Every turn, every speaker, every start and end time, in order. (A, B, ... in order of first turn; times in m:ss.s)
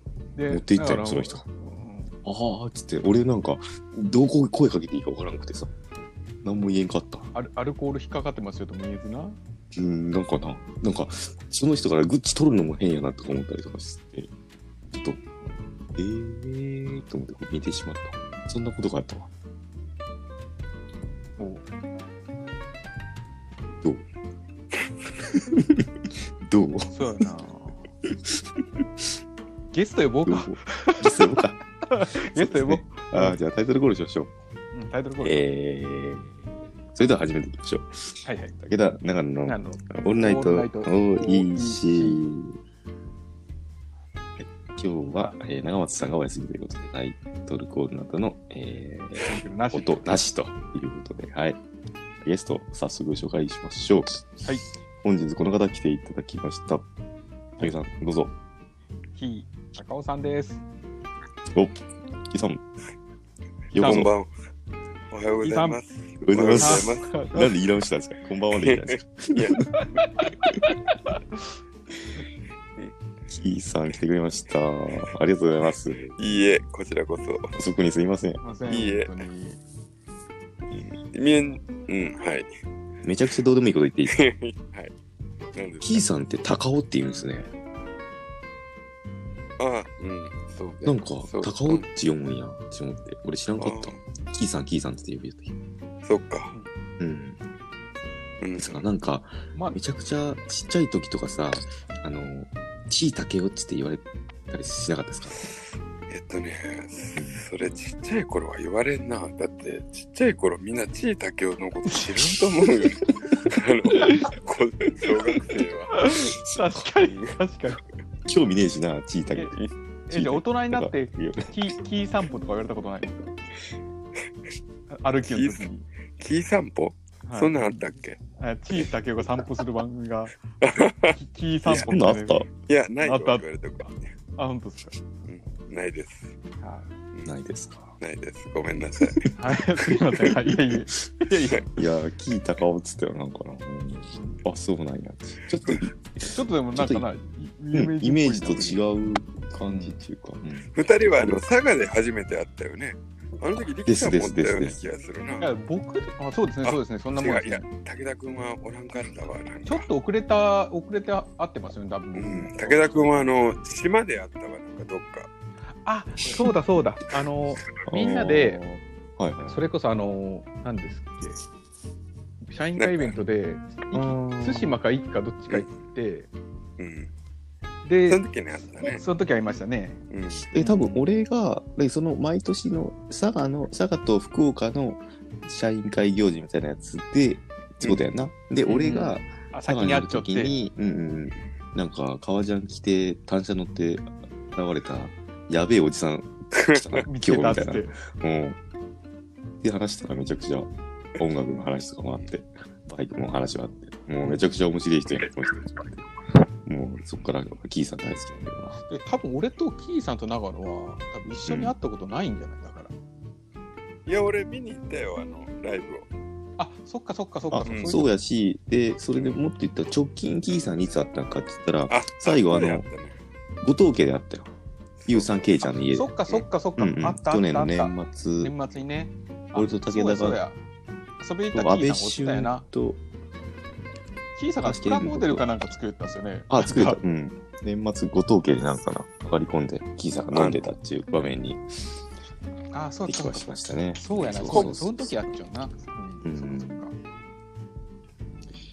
0:00.3-0:02.2 A
0:00.5-0:01.4 B
0:02.2-0:05.7 B
0:06.4-0:07.3 B
0:07.3-0:09.4 A
0:09.7-0:14.3 B
0:14.9-0:15.2 B
0:15.9-0:19.3 B
0:21.4-0:21.6 A
0:25.3-0:26.9 B
0:26.9-0:27.9 A
0:28.1-0:28.8 B
0:29.7-0:31.3 A
0:30.2-0:34.3 B
0:31.9-0:33.4 A
0:34.7-0:35.4 A
0:35.2-0:36.4 B
0:36.9-0:42.6 B
0:38.2-0:38.6 A
0:39.4-0:42.2 A
0:44.4-0:51.6 B
0:49.2-0:50.1 A
0:52.2-0:54.4 B
0:55.0-0:56.8 B
0:57.6-0:58.3 B
0:59.2-1:00.6 A
1:01.5-1:02.6 B
1:03.7-1:04.1 B
1:03.8-1:04.1 A
1:03.8-1:04.3 C
1:05.1-1:07.1 C
1:05.4-1:05.8 A
1:06.2-1:09.6 B
1:06.6-1:07.5 A
1:08.6-1:09.6 C
1:09.8-1:11.4 A
1:13.3-1:16.4 B
1:16.2-1:17.5 C
1:17.5-1:18.4 B
1:18.4-1:19.6 A
1:18.7-1:19.1 C
1:20.9-1:22.5 C
1:23.0-1:24.2 B
1:24.1-1:24.9 C
1:25.5-1:26.0 C
1:25.8-1:27.5 B
1:29.6-1:31.8 C
1:30.8-1:35.6 B
1:33.6-1:34.0 C
1:36.0-1:36.5 C
1:37.0-1:37.4 B
1:38.4-1:38.8 C
1:38.6-1:45.5 B
1:46.1-1:56.0 C
1:47.2-1:47.4 B
1:53.9-1:54.3 A
1:55.9-1:57.8 A
1:56.4-1:56.9 B
1:58.2-1:59.6 B
2:00.1-2:03.3 A
2:00.1-2:01.6 B
2:04.9-2:05.8 A
2:05.2-2:05.6 C
2:06.2-2:08.2 C
2:07.2-2:07.8 A
2:08.4-2:10.3 A
2:10.6-2:11.1 C
2:11.1-2:12.4 A
2:11.6-2:12.5 B
2:12.6-2:14.1 C
2:13.0-2:13.4 A
2:14.4-2:15.0 A
2:15.2-2:16.3 C
2:16.6-2:16.9 A
2:17.2-2:17.9 B
2:18.0-2:19.2 C
2:19.0-2:19.3 B
2:19.4-2:21.8 A
2:21.7-2:27.1 B
2:24.1-2:24.4 A
2:26.2-2:28.8 A
2:27.7-2:30.7 B
2:29.6-2:30.0 A
2:30.7-2:35.5 C
2:33.8-2:34.8 B
2:35.4-2:37.6 A
2:36.6-2:39.9 C
2:39.6-2:43.3 A
2:42.1-2:45.3 C
2:45.8-2:48.6 A
2:47.8-2:49.6 B
2:49.4-2:51.4 A
2:52.4-2:56.3 A
2:52.8-2:53.1 C
2:53.9-2:54.8 B
2:56.8-2:57.1 C
2:57.8-2:58.2 A
2:58.1-2:59.0 C
2:58.8-3:00.0 A
3:00.1-3:00.5 C
3:00.5-3:18.6 B
3:00.6-3:01.1 A
3:08.6-3:10.6 A
3:16.5-3:17.0 C
3:17.1-3:18.0 A
3:19.6-3:26.1 B
3:26.6-3:28.8 B
3:28.9-3:32.9 A
3:31.4-3:31.7 B
3:34.0-3:36.1 C
3:36.6-3:38.1 A
3:37.5-3:42.8 B
3:37.6-3:38.0 C
3:41.9-3:43.2 C
3:43.6-3:44.5 B
3:45.0-3:45.6 C
3:45.0-3:46.1 B
3:45.9-3:50.6 A
3:46.8-3:48.5 B
3:49.5-3:50.4 B
3:51.2-3:52.7 A
3:51.5-3:53.0 B
3:54.3-3:57.0 A
3:54.6-3:55.5 B
3:56.5-4:01.9 B
4:00.3-4:00.6 C
4:02.7-4:06.9 A
4:03.0-4:05.1 B
4:04.4-4:04.7 C
4:06.2-4:06.8 B